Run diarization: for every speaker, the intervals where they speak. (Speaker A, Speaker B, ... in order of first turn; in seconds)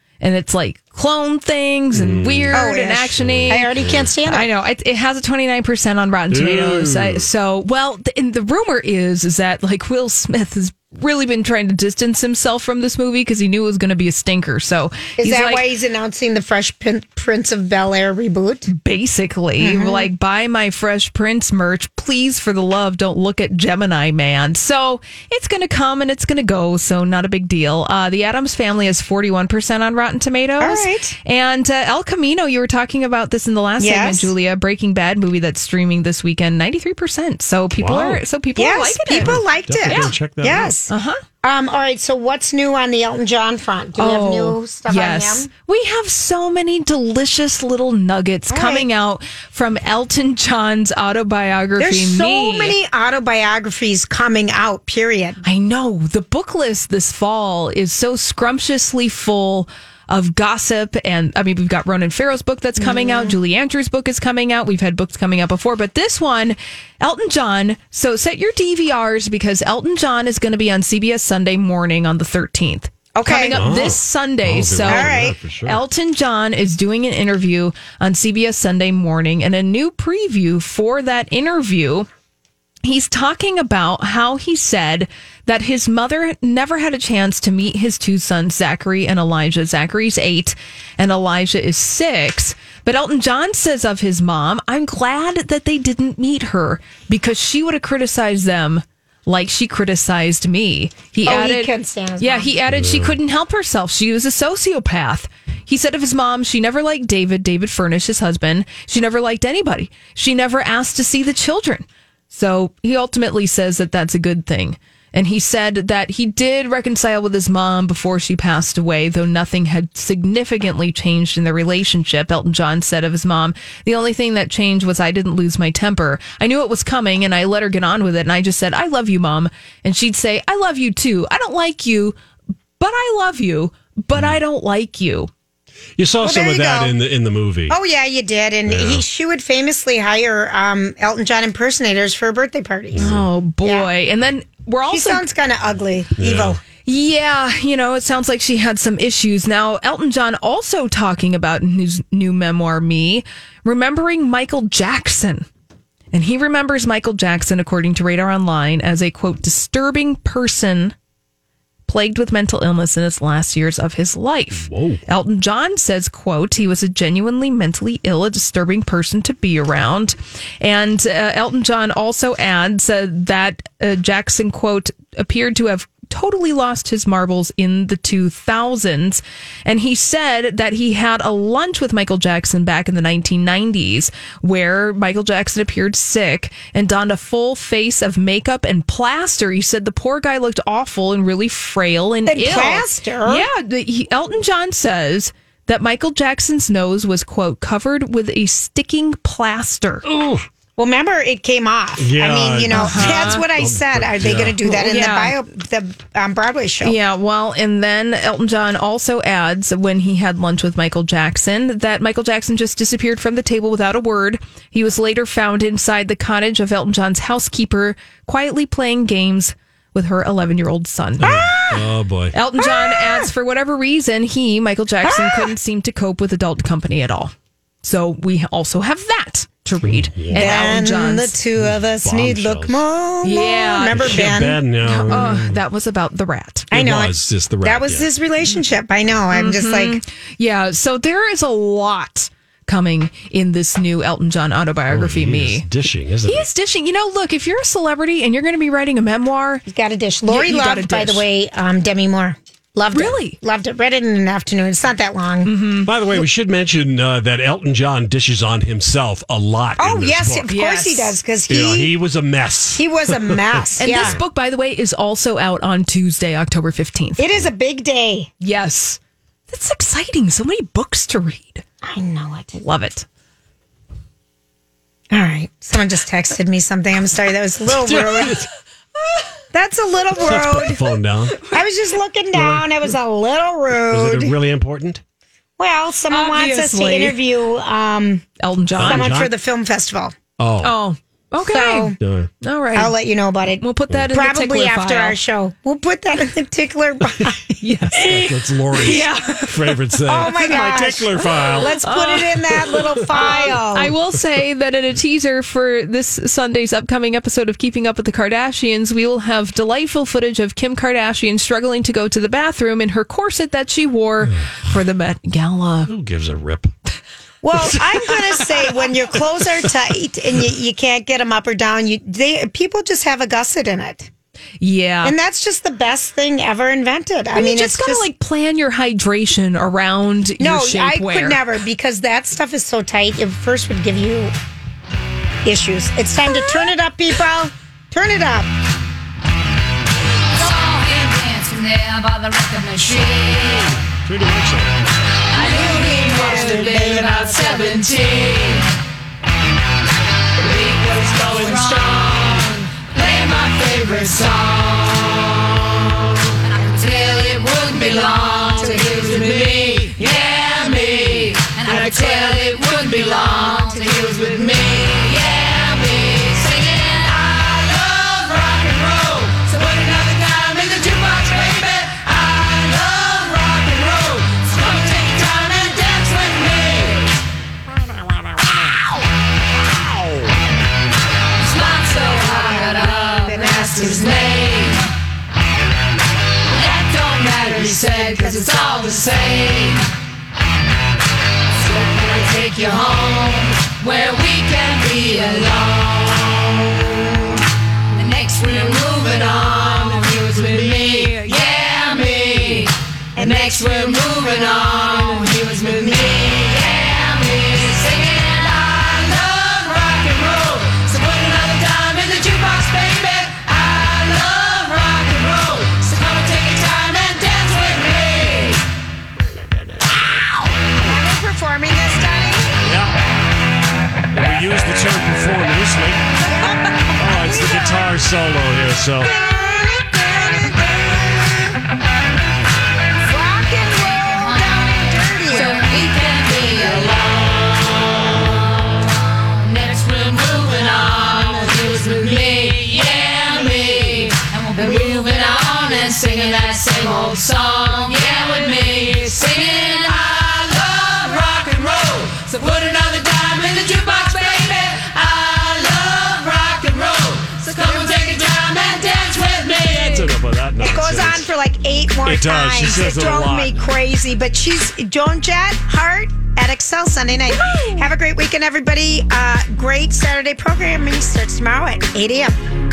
Speaker A: 0.2-3.7, 4.3-15.6, 18.7-40.1, 40.9-41.2, 44.0-52.8, 55.4-82.1, 82.8-132.2, 132.8-135.3, 143.0-145.3, 146.8-155.5, 156.1-160.9, 161.9-200.1, 202.7-203.4, 204.6-205.4, 206.8-227.3, 227.8-231.4, 233.2-236.7, 239.3-245.7, 246.3-249.6, 250.3-251.2, 252.9-253.4, 255.4-256.2, 260.5-261.1, 263.8-267.2, 268.4-271.6, 272.5-273.1, 286.1-287.2, 288.4-289.1, 290.6-292.9, 293.6-295.2, 297.6-299.9, 301.4-315.9, 324.6-325.1, 327.3-331.4, 346.0-346.4, 351.2-352.0, 360.4-360.8, 457.4-458.1, 467.3-467.9
Speaker B: 1.9-4.1, 6.3-7.3, 37.8-38.2, 39.1-40.8, 73.5-75.8, 102.7-103.2, 134.1-134.4, 136.0-137.8, 138.7-139.0, 142.9-143.3, 146.2-146.6, 164.5-165.0, 200.0-200.4, 202.0-204.6, 221.2-222.3, 229.8-230.7, 231.6-232.8, 233.9-235.6, 236.7-238.1, 244.9-246.5, 255.8-260.5, 261.5-264.2, 277.7-278.5, 280.2-281.4, 282.3-282.7, 283.7-285.0, 288.8-289.3, 290.4-290.8, 292.0-292.3, 297.9-301.8, 302.7-303.4, 314.2-314.6, 315.9-316.7, 317.5-319.5, 344.0-344.8, 422.6-423.0, 424.1-426.1, 427.0-429.1, 459.6-461.3, 462.0-463.6
Speaker C: 2.5-4.5, 15.2-18.7, 19.6-20.1, 30.6-31.1, 33.8-34.3, 38.6-40.9, 41.4-45.5, 48.5-48.9, 51.8-55.4, 62.8-63.4, 73.1-73.6, 74.8-75.4, 101.2-102.5, 136.2-136.9, 137.7-143.9, 144.9-146.6, 192.3-193.5, 200.8-207.0, 221.2-221.5, 222.6-223.3, 225.0-225.5, 230.3-235.2, 236.7-240.0, 249.7-255.5, 259.8-261.9, 262.8-264.2, 267.2-268.3, 271.8-272.6, 275.1-278.4, 279.5-280.8, 281.4-284.3, 285.6-288.3, 288.8-290.1, 291.4-292.0, 292.7-297.5, 300.1-303.9, 317.4-324.1, 325.0-328.1, 330.4-334.3, 335.4-338.5, 345.4-347.6, 358.1-359.3, 361.6-362.5, 363.2-364.3, 381.9-384.3, 388.2-388.6, 403.1-404.2, 404.8-405.2, 420.8-422.6, 426.2-427.9, 429.0-431.4, 433.0-435.7, 460.6-472.4
Speaker D: 340.3-343.8, 345.3-348.7, 350.4-355.4, 356.4-377.2, 381.5-384.8, 386.5-389.9, 391.6-397.1, 397.9-418.6, 433.6-459.9